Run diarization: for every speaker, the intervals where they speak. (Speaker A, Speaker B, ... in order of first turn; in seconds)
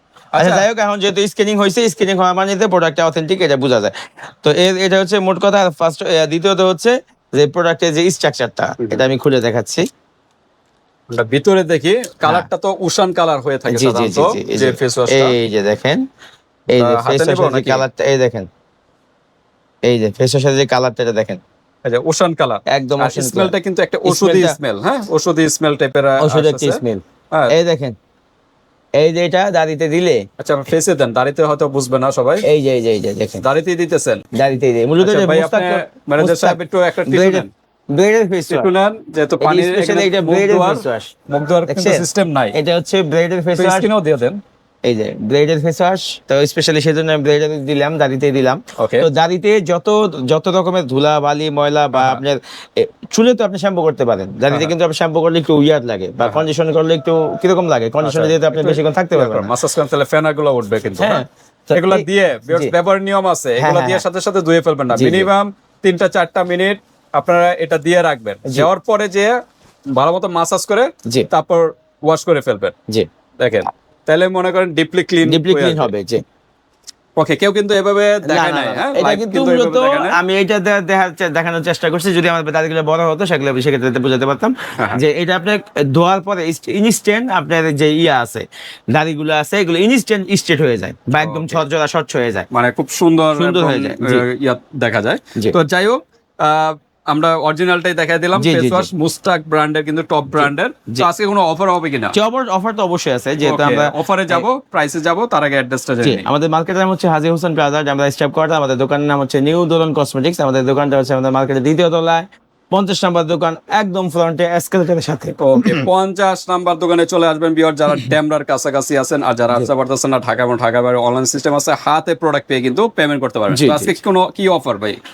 Speaker A: 0.3-0.7, 11.1-15.4, 16.7-17.8, 21.8-27.5, 30.4-32.4, 33.4-34.2, 35.0-37.5, 38.5-42.5, 43.6-44.4, 48.8-49.1, 51.9-52.2, 58.0-69.3, 69.9-72.7, 73.4-75.9, 77.2-80.2, 91.2-91.6, 92.5-102.1, 103.4-106.2, 115.4-125.0
Speaker B: 0.4-9.8, 13.7-16.0, 16.7-18.5, 19.9-21.4, 22.7-23.5, 24.0-24.6, 26.2-27.9, 29.0-30.2, 32.4-33.4, 34.3-38.7, 39.4-41.1, 41.7-43.9, 44.8-59.5, 61.0-62.7, 63.6-64.0, 64.9-65.3, 75.2-76.2, 78.2-92.5, 93.3-94.2, 98.3-98.9, 100.3-101.1, 102.1-104.4, 106.0-115.9, 123.5-124.0